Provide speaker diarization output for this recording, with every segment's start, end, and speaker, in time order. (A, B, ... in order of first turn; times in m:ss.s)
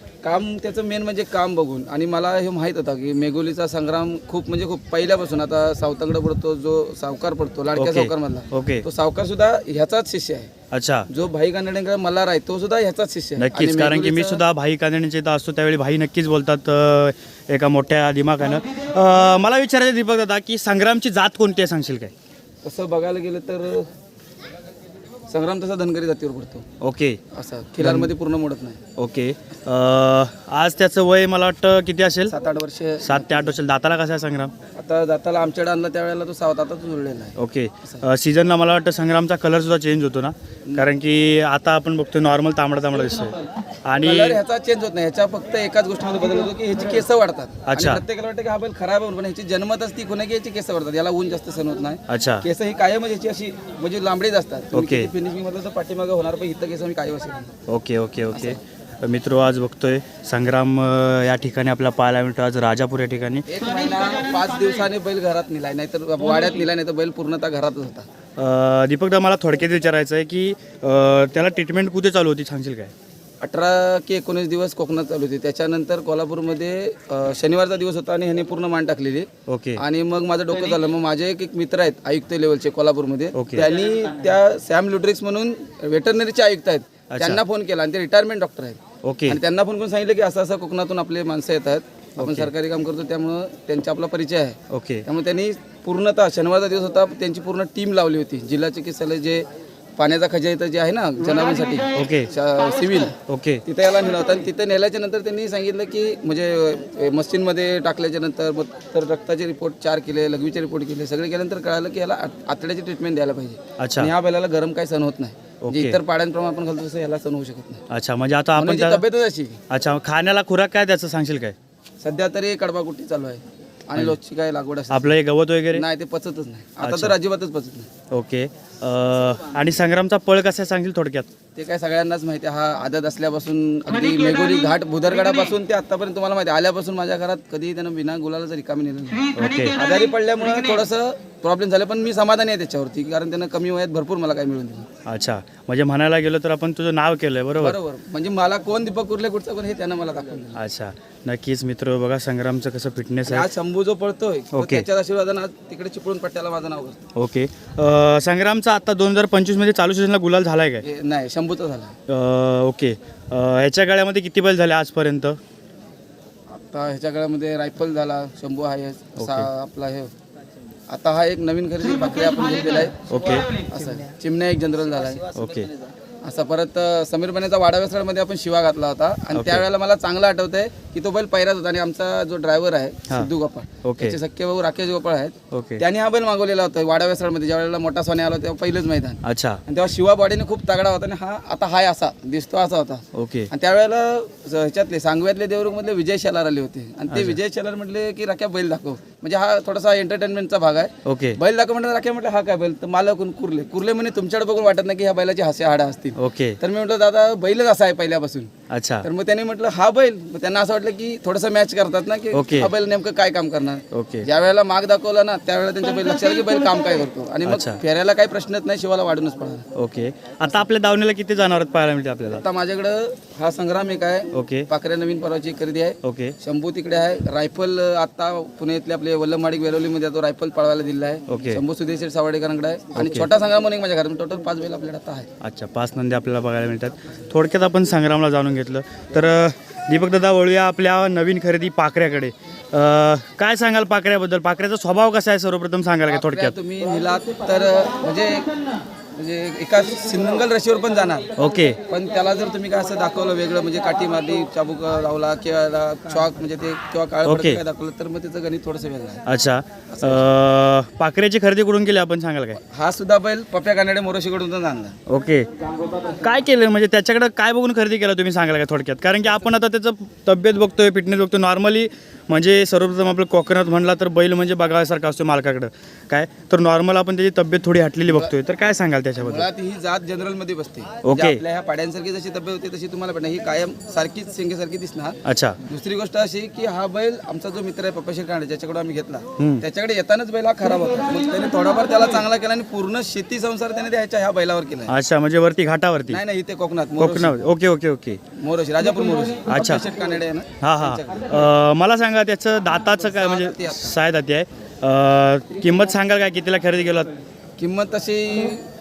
0:00.2-0:10.5 A
0:07.8-0:08.8 B
0:10.7-0:11.1 B
0:11.1-0:14.4 A
0:13.4-0:22.1 B
0:22.6-0:23.9 A
0:25.3-0:26.6 A
0:26.8-0:27.2 B
0:27.3-0:28.8 A
0:27.8-0:28.1 B
0:29.0-0:32.3 B
0:32.3-0:33.5 A
0:33.0-0:34.5 B
0:34.8-0:37.4 A
0:37.4-0:44.4 B
0:44.0-0:57.5 A
0:47.7-0:48.0 B
0:52.1-0:52.4 B
0:54.7-0:55.1 B
0:57.7-1:03.5 B
1:03.5-1:08.1 A
1:08.4-1:12.9 B
1:13.4-1:39.4 A
1:19.5-1:19.8 B
1:23.3-1:23.7 B
1:27.1-1:27.4 B
1:29.0-1:29.4 B
1:32.2-1:32.5 B
1:34.7-1:35.0 B
1:40.0-1:57.8 A
1:41.9-1:42.3 B
1:43.3-1:43.6 B
1:53.8-1:54.1 B
1:55.6-1:56.0 B
1:57.9-1:59.0 B
1:58.6-1:59.6 A
1:59.7-2:01.6 B
2:02.0-2:05.1 A
2:04.9-2:05.8 B
2:05.8-2:07.9 A
2:06.8-2:07.2 B
2:08.1-2:11.3 B
2:11.6-2:24.9 A
2:19.4-2:19.8 B
2:25.1-2:27.8 B
2:27.6-2:30.6 A
2:30.6-2:33.5 B
2:33.3-2:37.0 A
2:34.5-2:34.8 B
2:37.2-2:40.8 B
2:40.8-2:41.9 A
2:42.1-2:45.4 B
2:46.5-2:50.1 A
2:49.2-2:49.5 B
2:50.9-2:55.4 A
2:53.1-2:53.5 B
2:55.3-2:55.7 B
2:56.2-3:28.5 A
2:59.3-2:59.6 B
3:03.8-3:04.2 B
3:05.5-3:05.8 B
3:09.2-3:09.6 B
3:13.1-3:13.5 B
3:17.1-3:17.4 B
3:21.1-3:21.4 B
3:26.2-3:26.6 B
3:28.7-3:29.1 B
3:29.0-3:39.6 A
3:32.3-3:32.7 B
3:33.9-3:34.3 B
3:37.5-3:37.8 B
3:39.8-3:42.4 B
3:42.3-3:55.3 A
3:44.3-3:44.7 B
3:46.0-3:46.4 B
3:51.3-3:51.6 B
3:53.0-3:53.3 B
3:55.4-4:06.5 B
4:06.1-4:08.5 A
4:09.2-4:11.3 A
4:11.4-4:11.8 B
4:11.9-4:19.2 A
4:17.2-4:17.6 B
4:19.3-4:22.6 B
4:19.9-4:20.3 A
4:22.7-4:25.0 A
4:25.1-4:25.5 B
4:26.2-4:39.5 B
4:38.1-4:38.3 A
4:39.2-4:54.9 A
4:41.0-4:41.4 B
4:45.2-4:45.6 B
4:49.4-4:49.6 B
4:54.9-4:56.2 B
4:56.1-4:57.4 A
4:57.0-4:58.2 B
4:58.4-5:01.3 A
4:59.5-4:59.8 B
5:00.6-5:07.1 B
5:03.0-5:04.0 A
5:07.6-5:08.6 A